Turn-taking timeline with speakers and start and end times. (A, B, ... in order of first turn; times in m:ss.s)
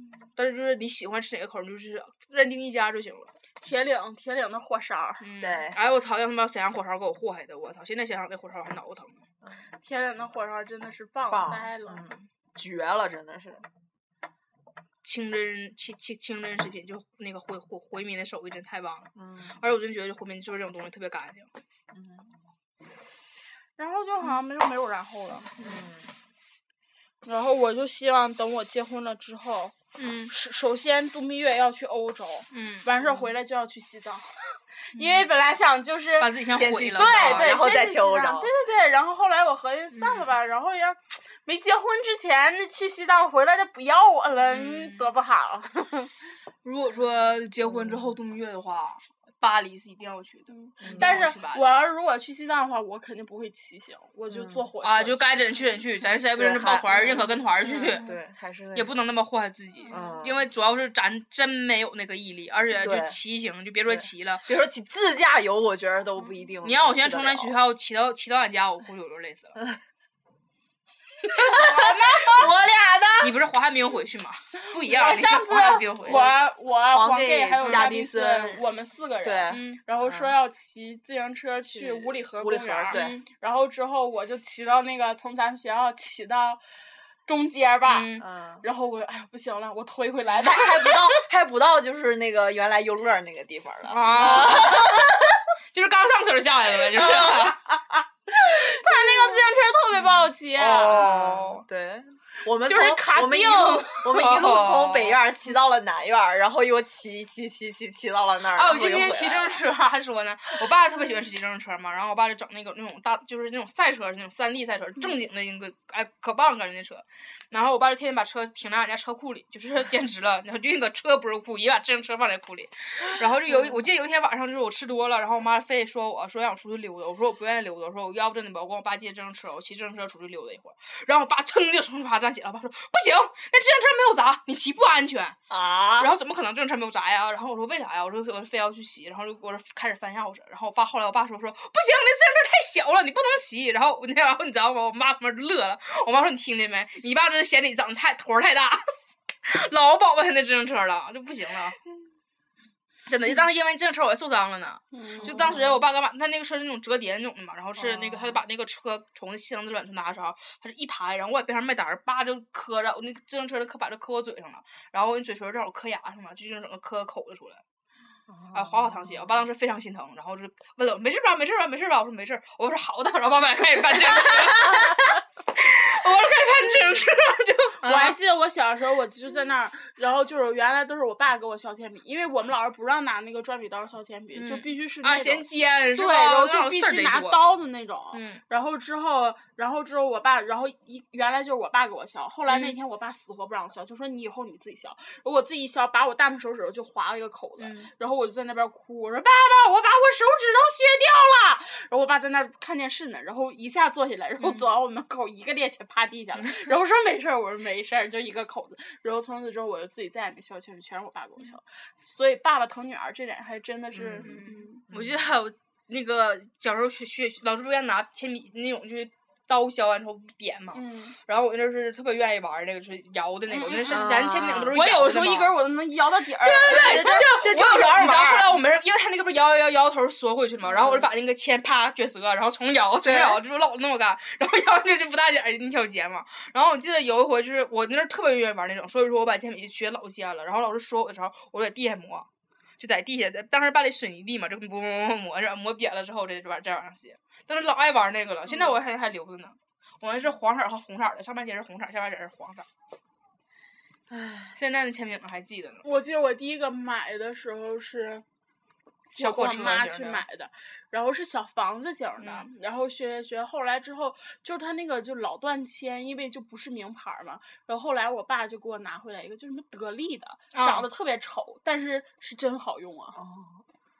0:00.4-0:03.3 A
0:03.6-0:05.2 B
0:05.2-0:09.2 A
0:05.4-0:05.8 C
0:09.8-0:12.1 B
0:11.3-0:13.7 C
0:15.0-0:21.5 A
0:19.1-0:19.6 C
0:21.9-0:22.4 C
0:23.8-0:25.5 B
0:25.6-0:26.2 C
0:27.2-0:29.8 B
0:30.0-0:30.3 A
0:30.3-0:46.1 B
0:32.5-0:32.9 A
0:34.9-0:35.3 A
0:36.2-0:37.5 A
0:36.5-0:38.5 C
0:39.9-0:40.3 A
0:44.5-0:45.1 A
0:46.6-0:51.8 A
0:47.7-0:48.2 C
0:50.5-0:55.6 B
0:50.8-0:51.3 C
0:54.3-0:54.7 C
0:54.8-0:58.0 A
0:56.3-0:59.0 C
0:56.9-0:58.2 B
0:58.7-1:04.5 A
0:59.8-1:00.2 B
0:59.9-1:00.4 C
1:02.8-1:03.2 C
1:03.9-1:07.6 C
1:06.6-1:09.6 A
1:11.4-1:12.5 A
1:11.4-1:13.4 C
1:11.6-1:11.8 B
1:13.2-1:16.4 A
1:14.6-1:26.6 B
1:16.1-1:18.6 C
1:17.6-1:17.9 A
1:19.2-1:20.3 C
1:19.5-1:19.8 A
1:21.6-1:23.2 C
1:22.9-1:23.2 A
1:27.3-1:28.1 B
1:27.9-1:28.2 A
1:28.2-1:28.6 C
1:28.6-1:31.0 B
1:30.4-1:35.4 C
1:33.9-1:35.1 A
1:35.7-1:37.6 A
1:36.9-1:37.6 C
1:37.9-1:41.1 B
1:38.5-1:38.8 C
1:40.5-1:49.6 C
1:40.7-1:41.6 A
1:42.6-1:44.0 B
1:44.0-1:45.2 A
1:48.6-2:15.4 A
2:15.5-2:16.1 C
2:16.0-2:28.8 A
2:29.4-2:31.8 A
2:33.1-2:47.6 A
2:34.9-2:35.6 B
2:35.2-2:35.8 C
2:37.8-2:38.4 C
2:48.3-2:49.5 C
2:48.5-2:58.1 A
2:54.5-2:55.1 B
2:57.8-3:34.8 B
3:04.4-3:07.4 A
3:08.1-3:08.4 A
3:12.5-3:12.8 A
3:17.6-3:17.9 A
3:33.9-3:34.4 C
3:34.2-3:45.6 A
3:34.9-3:35.4 C
3:40.7-3:41.2 B
3:43.5-3:44.2 B
3:43.9-3:44.8 C
3:44.7-3:47.3 B
3:46.4-4:02.3 A
3:46.6-3:48.6 C
3:50.7-3:51.1 C
3:53.1-3:53.4 C
4:02.8-4:12.7 A
4:14.1-4:14.6 C
4:14.6-4:15.8 A
4:15.8-4:18.2 B
4:19.1-4:33.2 B
4:19.2-4:20.2 A
4:22.2-4:22.5 A
4:30.5-4:30.9 A
4:33.1-4:33.6 C